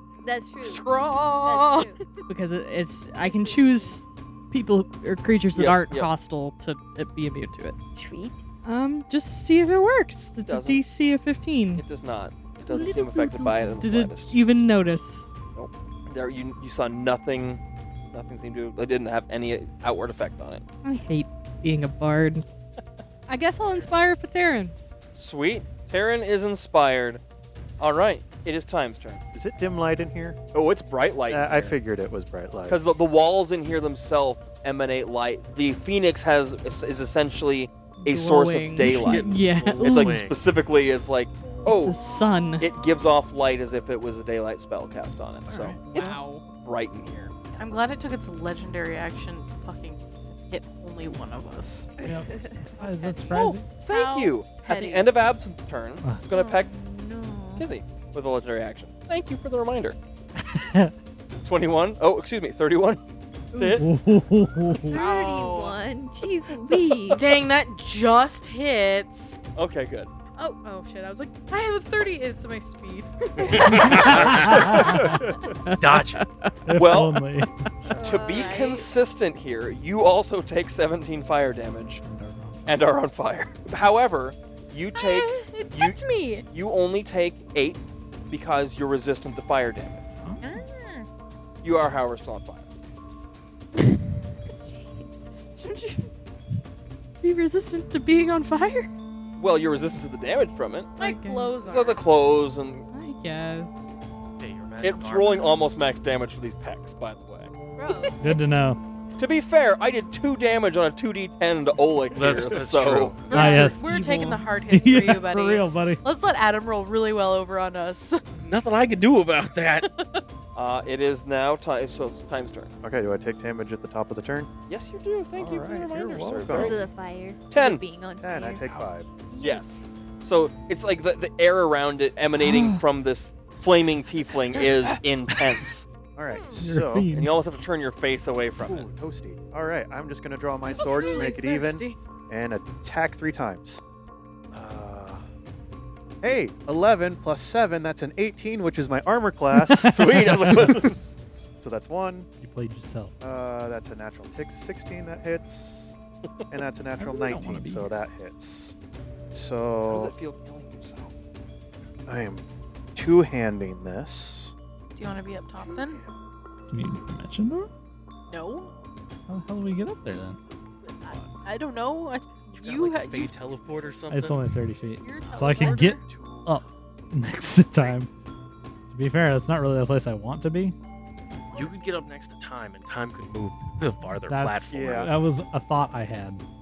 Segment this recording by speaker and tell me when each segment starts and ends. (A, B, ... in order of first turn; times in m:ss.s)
0:00.2-0:00.8 A
0:00.6-0:01.8 B
0:01.4-0:02.0 A
0:01.5-0:01.8 C
0:02.3-0:07.8 D
0:03.2-0:04.0 A
0:05.5-0:06.1 B
0:08.0-0:08.4 A
0:08.6-0:11.8 D
0:10.4-0:10.8 B
0:11.8-0:14.3 B
0:12.7-0:15.3 D
0:15.5-0:17.6 B
0:18.1-0:20.6 B
0:20.8-0:22.4 D
0:23.3-0:24.7 D
0:25.2-0:27.2 B
0:27.8-0:29.2 B
0:29.3-0:30.4 E
0:30.5-0:31.7 B
0:31.3-0:32.8 E
0:32.7-0:42.0 B
0:38.0-0:40.2 D
0:38.8-0:40.4 F
0:41.6-0:42.7 D
0:42.6-0:47.6 B
0:45.5-0:46.0 E
0:45.9-0:46.4 D
0:47.6-0:51.9 C
0:52.0-0:53.7 G
0:52.3-0:52.7 A
0:53.1-0:55.1 C
0:53.8-0:56.7 B
0:56.3-0:57.7 A
0:57.6-1:00.0 B
1:00.4-1:00.9 G
1:01.3-1:03.0 B
1:03.5-1:03.8 B
1:03.8-1:05.0 G
1:04.9-1:07.3 A
1:04.9-1:05.8 C
1:07.1-1:09.4 C
1:09.6-1:10.1 B
1:10.4-1:14.1 C
1:13.6-1:14.5 F
1:13.9-1:15.2 G
1:13.9-1:14.6 B
1:14.8-1:15.4 E
1:15.6-1:17.4 D
1:15.8-1:16.2 F
1:16.6-1:17.5 G
1:16.8-1:17.2 B
1:17.9-1:18.9 A
1:17.9-1:22.0 B
1:22.0-1:22.8 G
1:22.6-1:30.0 B
1:24.9-1:26.4 C
1:30.4-1:31.0 C
1:31.6-1:32.6 B
1:35.6-1:36.1 D
1:37.2-1:38.9 D
1:39.4-1:41.0 B
1:41.0-1:42.0 C
1:41.0-1:41.6 D
1:41.6-1:42.8 B
1:42.9-1:43.9 D
1:44.4-1:45.6 F
1:44.8-1:47.5 B
1:47.8-1:48.4 C
1:48.2-1:48.8 G
1:49.2-1:53.2 B
1:52.1-1:53.6 F
1:53.2-1:58.2 C
1:53.3-1:54.4 D
1:53.3-1:54.0 G
1:54.7-1:56.0 G
1:58.3-1:59.9 F
1:59.8-2:00.2 C
2:00.5-2:02.7 B
2:02.8-2:04.5 E
2:04.7-2:06.9 B
2:05.4-2:06.8 E
2:06.5-2:08.6 A
2:07.5-2:07.8 B
2:08.2-2:09.1 E
2:09.3-2:09.6 C
2:09.4-2:15.9 B
2:12.4-2:12.8 G
2:16.2-2:17.1 E
2:16.3-2:16.6 C
2:16.6-2:17.4 G
2:17.1-2:18.9 B
2:18.6-2:23.8 E
2:20.7-2:22.0 C
2:24.5-2:25.2 E
2:26.2-2:30.9 E
2:29.6-2:30.8 G
2:29.8-2:30.9 B
2:31.6-2:32.3 E
2:32.4-2:33.1 G
2:33.2-2:36.0 E
2:36.5-2:38.7 E
2:37.0-2:38.0 G
2:39.3-2:40.1 E
2:39.9-2:41.1 B
2:42.1-2:42.4 E
2:42.9-2:44.5 E
2:45.0-2:46.0 C
2:45.8-2:46.1 E
2:46.7-2:47.7 G
2:48.3-2:48.7 C
2:49.3-2:50.4 G
2:50.8-2:53.3 C
2:52.5-2:54.5 F
2:54.1-2:58.1 G
2:55.0-2:56.0 C
2:55.3-2:56.7 E
2:58.9-3:00.7 G
3:01.5-3:05.0 F
3:04.2-3:06.4 G
3:04.7-3:05.2 E